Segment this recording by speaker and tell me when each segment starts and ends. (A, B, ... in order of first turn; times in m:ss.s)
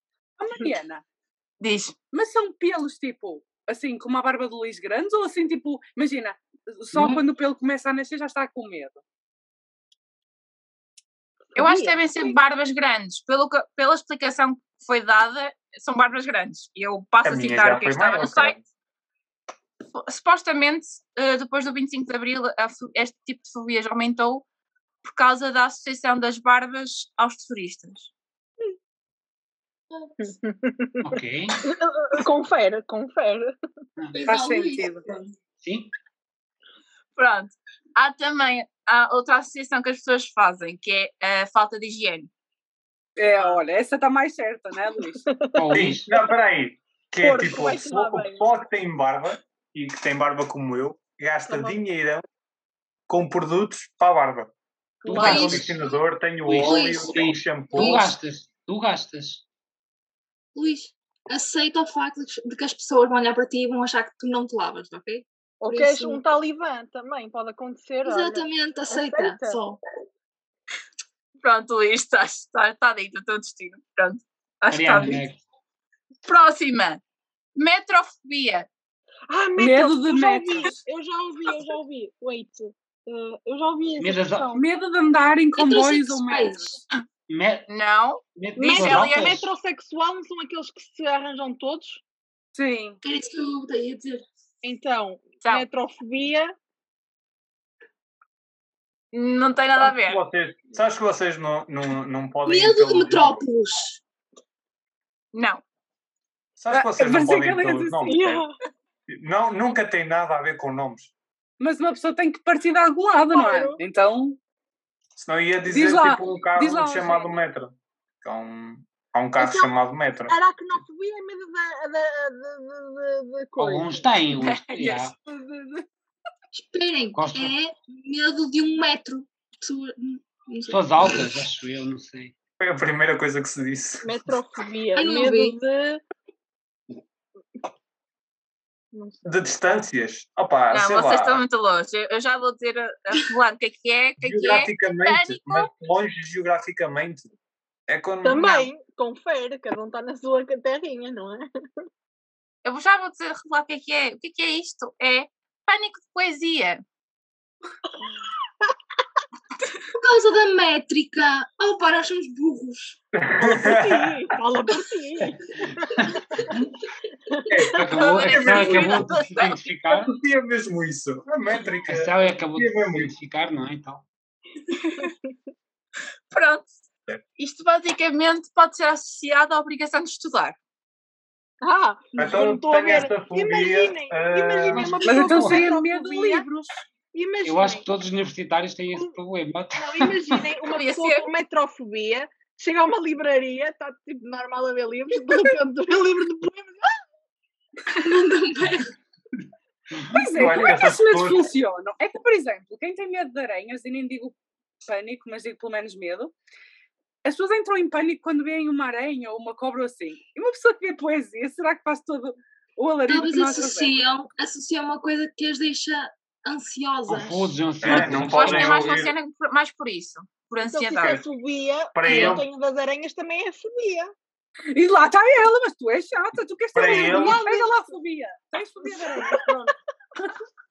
0:00.4-0:01.0 A
0:01.6-0:01.9 B
0:02.1-0:09.0 A
0:06.9-0:07.2 C
0:11.5-0:12.0 D
0:11.5-0:18.6 B
0:17.2-0:18.6 E
0:19.9-0:24.4 B
0:25.0-0:28.1 B
0:30.2-0:33.5 D
0:31.0-0:31.6 C
0:34.1-0:35.3 F
0:34.2-0:35.0 A
0:35.6-0:35.9 C
0:37.2-0:42.3 B
0:43.2-0:45.2 A
0:45.2-0:45.8 D
0:45.6-0:46.1 C
0:45.7-0:52.2 E
0:47.2-0:48.4 D
0:51.5-0:51.8 D
0:53.1-0:54.5 E
0:55.0-0:55.6 D
0:55.0-0:55.8 C
0:55.1-0:58.1 E
0:55.2-0:55.6 F
0:56.4-0:59.4 C
0:56.5-0:58.2 F
1:00.5-1:06.2 F
1:05.6-1:09.6 D
1:08.0-1:09.8 F
1:11.4-1:15.2 B
1:14.7-1:15.4 C
1:16.2-1:17.0 B
1:17.6-1:18.7 B
1:19.3-1:24.6 D
1:19.6-1:20.8 A
1:24.0-1:24.5 C
1:24.5-1:26.8 A
1:25.5-1:26.8 F
1:27.3-1:27.7 C
1:27.7-1:29.4 B
1:28.4-1:29.5 C
1:28.6-1:32.0 D
1:32.5-1:33.0 A
1:33.0-1:34.2 F
1:34.6-1:36.5 D
1:39.1-1:40.2 B
1:39.8-1:43.4 E
1:42.4-1:44.0 F
1:45.3-1:45.6 B
1:46.6-1:48.4 E
1:46.7-1:48.2 A
1:48.1-1:48.5 D
1:49.1-1:51.1 E
1:51.6-1:54.4 A
1:53.3-1:53.8 D
1:55.2-2:00.4 E
1:55.7-1:57.4 A
1:59.4-1:59.7 D
2:00.3-2:04.1 D
2:03.6-2:05.1 C
2:04.4-2:05.1 B
2:05.2-2:05.9 D
2:06.5-2:11.3 F
2:07.1-2:07.5 C
2:10.7-2:12.4 C
2:12.6-2:14.1 E
2:14.0-2:16.0 D
2:14.9-2:15.6 F
2:18.9-2:19.2 D
2:19.2-2:21.4 E
2:20.7-2:25.7 B
2:24.2-2:27.3 E
2:27.9-2:28.5 E
2:28.2-2:31.4 D
2:28.4-2:28.7 B
2:32.6-2:36.8 B
2:39.9-2:43.0 F
2:43.2-2:44.1 E
2:43.4-2:46.1 D
2:45.9-2:46.6 C
2:47.3-2:47.8 D
2:47.5-2:49.2 E
2:47.7-2:50.1 C
2:47.9-2:49.6 B
2:49.9-2:53.1 E
2:51.9-2:54.0 C
2:54.7-2:55.1 B
2:56.3-2:56.8 B
2:57.4-3:00.6 B
3:01.6-3:06.4 D
3:02.2-3:05.2 E
3:04.7-3:05.7 C
3:05.0-3:06.8 A
3:07.1-3:07.9 D
3:07.4-3:10.5 C
3:09.8-3:17.0 D
3:10.7-3:11.3 B
3:17.9-3:18.9 F
3:20.1-3:26.3 A
3:20.4-3:21.5 E
3:27.2-3:34.0 A
3:33.1-3:37.6 F
3:37.1-3:39.1 C
3:37.8-3:39.1 E
3:38.1-3:41.2 B
3:40.7-3:44.1 D
3:41.0-3:41.2 E
3:41.9-3:42.4 E
3:44.7-3:49.7 A
3:46.7-3:47.4 E
3:46.8-3:48.0 D
3:48.8-3:49.7 D